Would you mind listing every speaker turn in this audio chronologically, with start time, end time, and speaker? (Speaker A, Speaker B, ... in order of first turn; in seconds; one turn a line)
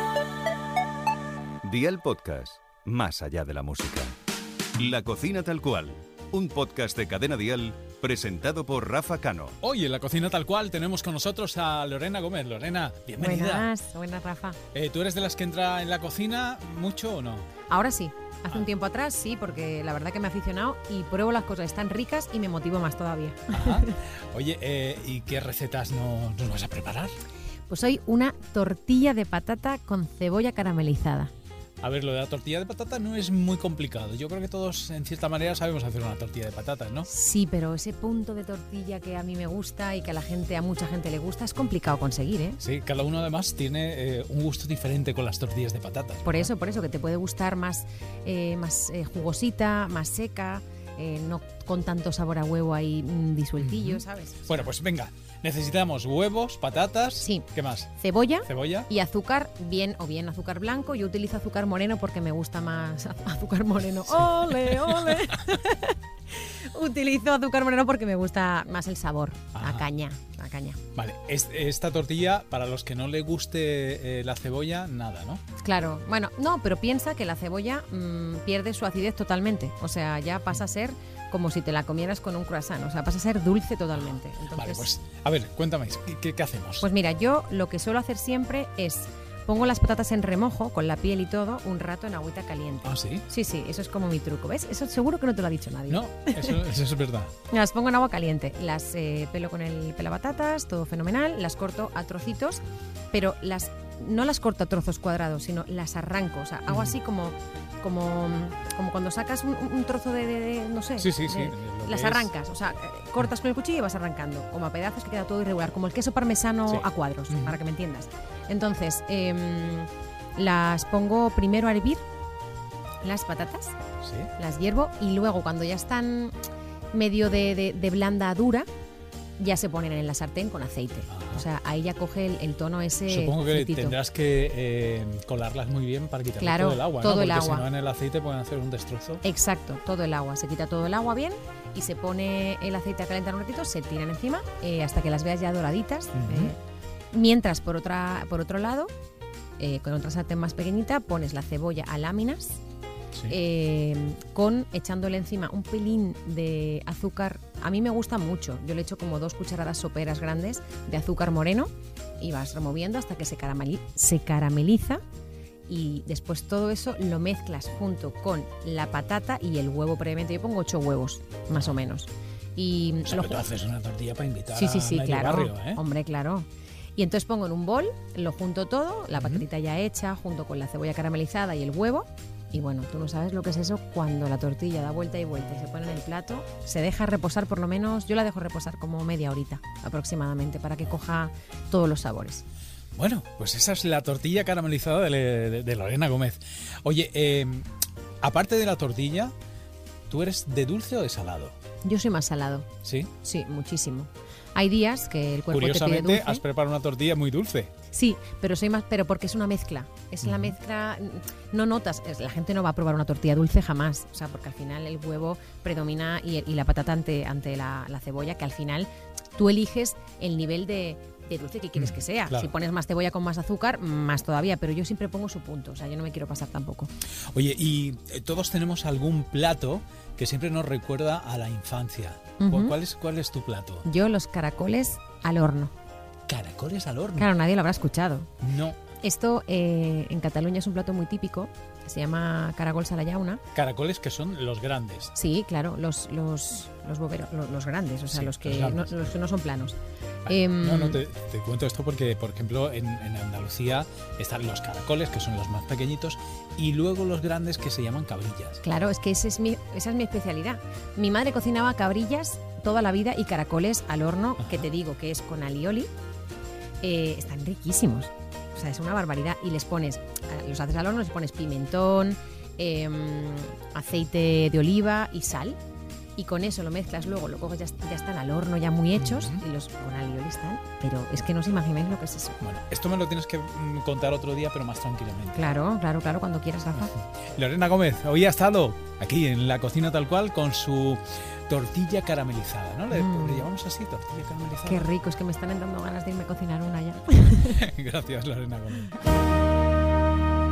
Speaker A: 1.6-4.2
Speaker A: 4.8-9.6
Speaker B: 9.6-13.7
Speaker C: 13.2-14.6
Speaker B: 14.7-17.5
Speaker C: 17.7-23.9
Speaker B: 23.5-27.1
Speaker C: 27.7-31.3
Speaker B: 31.8-37.1
Speaker C: 37.0-42.6
Speaker B: 42.6-46.5
Speaker C: 46.2-54.7
Speaker B: 53.6-57.9
Speaker C: 57.2-70.8
Speaker B: 58.5-58.9
Speaker B: 64.2-65.4
Speaker B: 69.5-69.9
Speaker B: 71.0-75.4
Speaker C: 75.6-84.9
Speaker B: 84.0-86.9
Speaker C: 86.8-96.6
Speaker B: 92.8-93.2
Speaker B: 95.9-97.3
Speaker C: 97.5-122.0
Speaker B: 106.7-107.0
Speaker B: 111.0-112.3
Speaker B: 116.7-117.6
Speaker C: 123.0-123.8
Speaker B: 124.0-124.3
Speaker C: 124.4-126.4
Speaker C: 126.9-128.7
Speaker C: 129.4-134.0
Speaker B: 131.1-131.4
Speaker B: 133.1-139.2
Speaker C: 136.4-137.7
Speaker C: 139.2-146.6
Speaker B: 146.1-146.5
Speaker C: 147.1-148.9
Speaker C: 149.6-152.6
Speaker C: 153.3-165.0
Speaker C: 165.7-173.5
Speaker B: 173.1-175.8
Speaker C: 174.5-192.4
Speaker B: 179.2-179.4
Speaker B: 193.0-197.7
Speaker B: 198.2-199.3
Speaker B: 200.1-201.5
Speaker C: 201.8-202.7
Speaker B: 202.8-203.1
Speaker C: 203.2-206.4
Speaker B: 205.5-207.7
Speaker C: 207.9-226.9
Speaker B: 210.2-210.6
Speaker B: 221.8-222.5
Speaker B: 227.3-233.9
Speaker C: 232.4-232.8
Speaker C: 233.8-235.7
Speaker B: 236.3-237.3
Speaker C: 237.2-238.3
Speaker B: 238.4-238.8
Speaker C: 239.0-243.4
Speaker B: 243.5-245.1
Speaker C: 245.1-251.0
Speaker B: 248.1-249.1
Speaker B: 250.3-258.6
Speaker C: 258.6-265.9
Speaker B: 264.4-264.6
Speaker C: 266.8-275.6
Speaker C: 276.2-282.4
Speaker B: 278.9-279.4
Speaker B: 282.4-285.6
Speaker C: 285.4-287.0
Speaker B: 286.8-294.9
Speaker C: 292.9-293.5
Speaker C: 294.6-297.7
Speaker B: 297.4-298.9